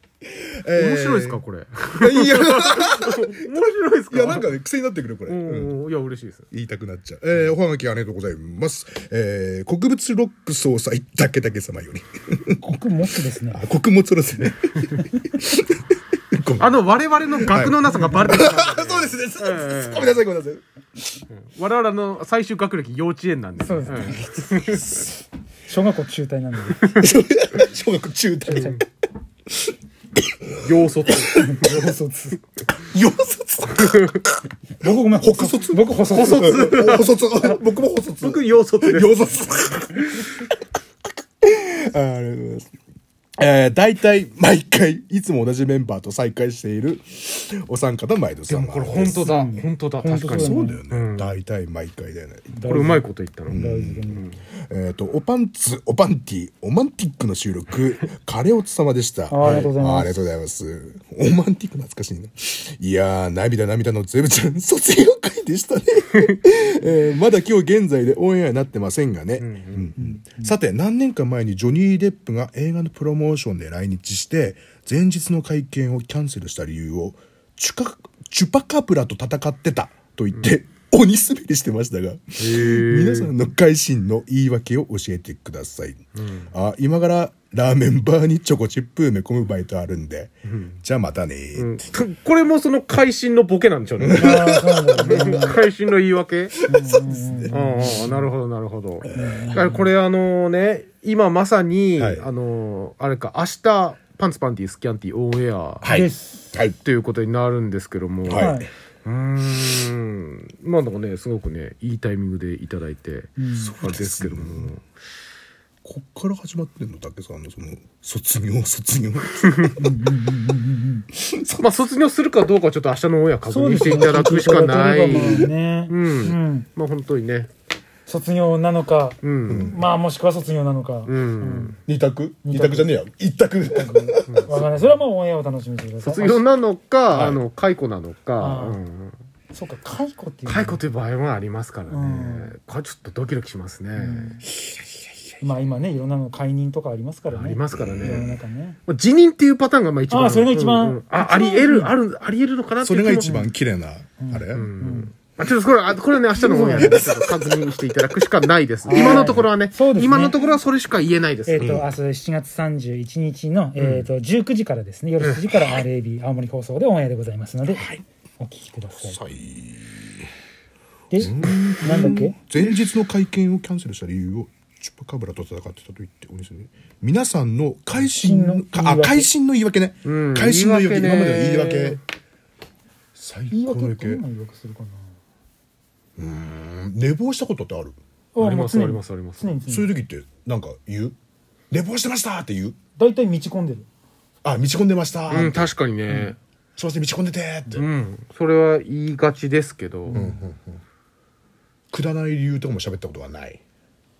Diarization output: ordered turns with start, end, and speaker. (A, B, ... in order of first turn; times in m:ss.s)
0:00.3-0:01.4 A
0:00.8-0:04.5 B
0:02.0-0:03.5 A
0:04.1-0:05.8 A
0:05.2-0:06.4 B
0:06.5-0:12.6 A
0:12.6-0:13.6 C
0:13.5-0:16.7 A
0:16.6-0:20.2 B
0:17.3-0:20.6 A
0:17.8-0:18.3 C
0:21.3-0:25.0 B
0:23.6-0:24.2 C
0:24.0-0:25.0 A
0:25.7-0:27.0 C
0:27.0-0:28.8 A
0:28.5-0:28.8 B
0:30.3-0:31.8 A
0:30.6-0:31.5 B
0:31.4-0:32.4 C
0:32.9-0:34.1 A
0:33.7-0:34.2 B
0:34.8-0:36.8 C
0:35.2-0:40.5 A
0:36.0-0:37.2 B
0:38.2-0:39.1 B
0:41.4-0:42.7 A
0:43.4-0:49.3 A
0:48.5-0:51.3 B
0:49.2-0:50.8 C
0:50.0-0:52.6 A
0:52.5-0:54.2 C
0:52.6-0:53.6 B
0:53.5-1:31.8 A
0:54.1-0:54.4 B
0:59.3-1:00.1 C
0:59.4-0:59.7 B
1:09.4-1:09.9 B
1:10.0-1:10.5 C
1:22.4-1:23.3 B
1:26.2-1:26.5 B
1:30.5-1:30.7 B
1:31.6-1:36.6 B
1:34.0-1:35.5 A
1:34.1-1:35.6 C
1:36.6-1:38.2 A
1:36.7-1:38.3 C
1:37.5-1:45.9 B
1:39.1-1:39.7 A
1:39.1-1:39.8 C
1:42.0-1:42.3 A
1:45.8-1:46.8 A
1:45.9-1:46.4 C
1:46.8-1:54.8 B
1:48.2-1:48.6 A
1:48.3-1:48.7 C
1:53.4-1:53.7 C
1:53.8-1:54.7 A
1:55.8-1:59.9 A
1:59.5-1:59.8 B
1:59.8-2:01.0 C
2:01.1-2:01.7 A
2:01.6-2:07.5 B
2:03.5-2:06.7 C
2:08.1-2:11.8 C
2:09.2-2:09.8 B
2:09.5-2:09.8 A
2:11.1-2:11.8 B
2:11.8-2:14.7 A
2:12.4-2:12.9 C
2:13.7-2:16.5 C
2:14.3-2:14.6 B
2:16.0-2:19.1 B
2:17.1-2:17.4 C
2:18.4-2:18.8 C
2:19.5-2:20.8 C
2:20.4-2:24.4 B
2:21.9-2:22.5 C
2:24.0-2:24.4 C
2:25.4-2:28.8 C
2:27.3-2:28.3 B
2:27.7-2:28.4 A
2:28.9-2:33.3 B
2:30.1-2:32.0 C
2:32.8-2:34.7 A
2:33.2-2:33.5 C
2:34.2-2:35.1 C
2:34.5-2:41.7 B
2:36.4-2:37.0 C
2:36.5-2:37.7 A
2:38.8-2:40.4 C
2:38.9-2:39.5 A
2:41.4-2:49.2 C
2:41.6-2:41.9 A
2:43.8-2:44.1 B
2:45.2-2:45.8 B
2:47.7-2:48.0 A
2:49.0-2:50.3 A
2:51.1-2:52.4 C
2:51.2-3:02.0 A
2:51.6-2:52.7 B
2:58.0-2:59.3 C
3:00.0-3:02.0 B
3:03.1-3:04.2 A
3:03.5-3:05.0 C
3:06.2-3:08.0 A
3:08.3-3:09.9 C
3:08.4-3:09.5 B
3:09.7-3:11.1 A
3:11.7-3:12.8 A
3:13.0-3:13.9 C
3:14.4-3:15.7 A
3:15.3-3:16.4 B
3:16.8-3:17.8 A
3:17.7-3:20.2 B
3:20.1-3:20.5 C
3:20.1-3:20.8 A
3:21.9-3:23.6 A